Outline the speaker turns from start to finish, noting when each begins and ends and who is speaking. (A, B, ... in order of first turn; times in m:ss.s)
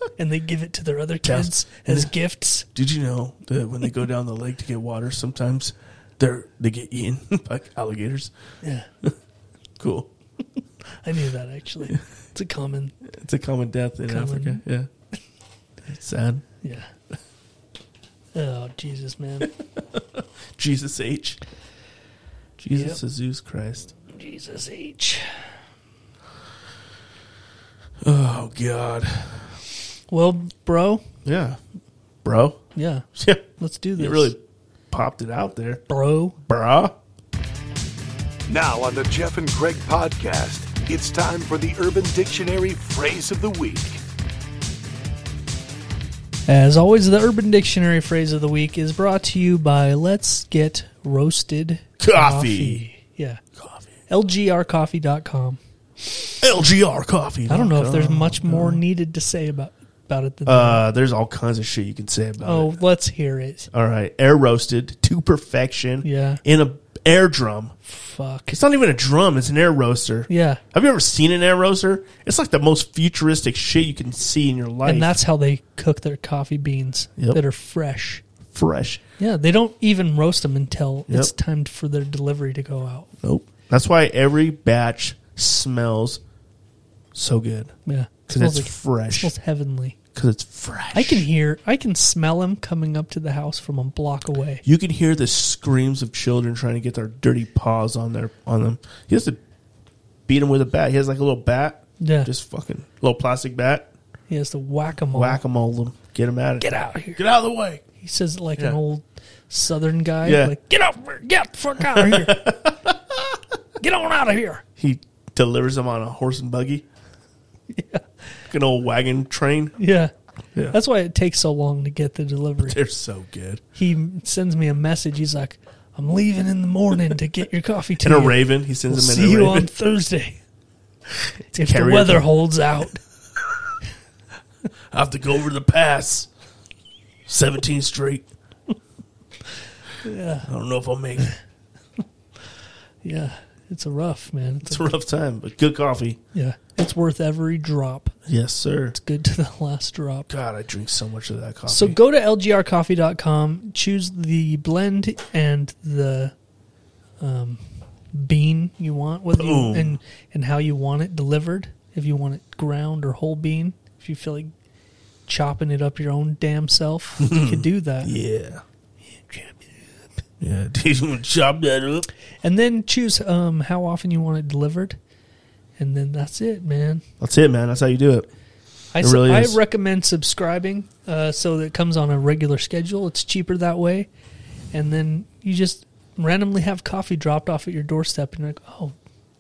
0:00.2-0:02.7 A
0:01.2-0:02.1 B
0:02.7-0:08.3 B
0:08.6-0:08.9 A
0:09.8-0:10.1 B
0:11.0-0:13.0 A
0:13.0-0:14.9 B
0:14.1-0:14.6 A
0:15.8-0:16.5 B
0:16.6-0:16.9 A
0:18.3-0:19.5 A
0:19.8-0:21.4 B
0:22.6-0:23.9 B
0:22.7-0:23.0 A
0:24.1-0:25.4 A
0:28.0-0:29.6 B
0:30.1-0:31.0 A
0:31.2-0:31.6 B
0:32.2-0:32.6 B
0:32.8-0:33.1 A
0:33.2-0:34.4 B
0:33.6-0:34.3 A
0:34.9-0:35.8 B
0:35.9-0:36.4 A
0:36.4-0:37.0 B
0:38.5-0:44.0 C
0:46.5-0:53.4 A
0:52.0-0:52.9 B
0:53.6-0:53.8 B
0:54.1-0:55.6 A
0:56.4-0:58.8 B
0:57.5-1:00.8 A
1:00.5-1:02.7 B
1:02.4-1:03.7 A
1:03.7-1:07.8 B
1:06.0-1:06.4 A
1:07.8-1:08.5 A
1:08.5-1:15.2 B
1:10.3-1:10.6 A
1:14.8-1:18.2 A
1:18.5-1:19.0 B
1:19.2-1:23.1 A
1:23.2-1:26.2 B
1:27.1-1:27.8 B
1:27.9-1:30.0 A
1:28.3-1:29.3 B
1:30.1-1:31.3 B
1:30.9-1:34.6 A
1:34.6-1:39.4 B
1:40.3-1:43.9 B
1:42.0-1:42.3 A
1:44.3-1:45.4 A
1:45.1-1:47.8 B
1:46.6-1:47.2 A
1:48.0-1:52.4 A
1:50.2-1:50.6 B
1:51.8-1:53.4 B
1:53.8-1:54.6 A
1:54.8-1:56.9 B
1:57.7-1:58.1 A
1:58.5-1:59.8 B
1:59.8-2:00.1 A
2:00.7-2:02.8 A
2:02.6-2:03.6 B
2:03.8-2:10.4 A
2:08.0-2:09.7 B
2:11.4-2:12.4 B
2:11.6-2:13.0 A
2:14.9-2:16.3 B
2:17.3-2:18.3 B
2:20.0-2:20.5 A
2:20.5-2:21.3 B
2:23.0-2:24.9 A
2:24.6-2:26.2 B
2:26.3-2:28.2 A
2:28.3-2:29.0 B
2:28.9-2:30.3 A
2:30.3-2:32.0 B
2:31.7-2:36.3 A
2:37.2-2:44.5 A
2:39.3-2:40.0 B
2:45.3-2:48.1 A
2:47.2-2:48.6 B
2:49.1-2:49.9 A
2:50.4-2:52.1 B
2:52.4-2:55.0 A
2:55.8-2:57.0 A
2:57.2-2:58.3 B
2:58.9-3:04.1 A
2:59.0-2:59.6 B
3:04.7-3:09.0 A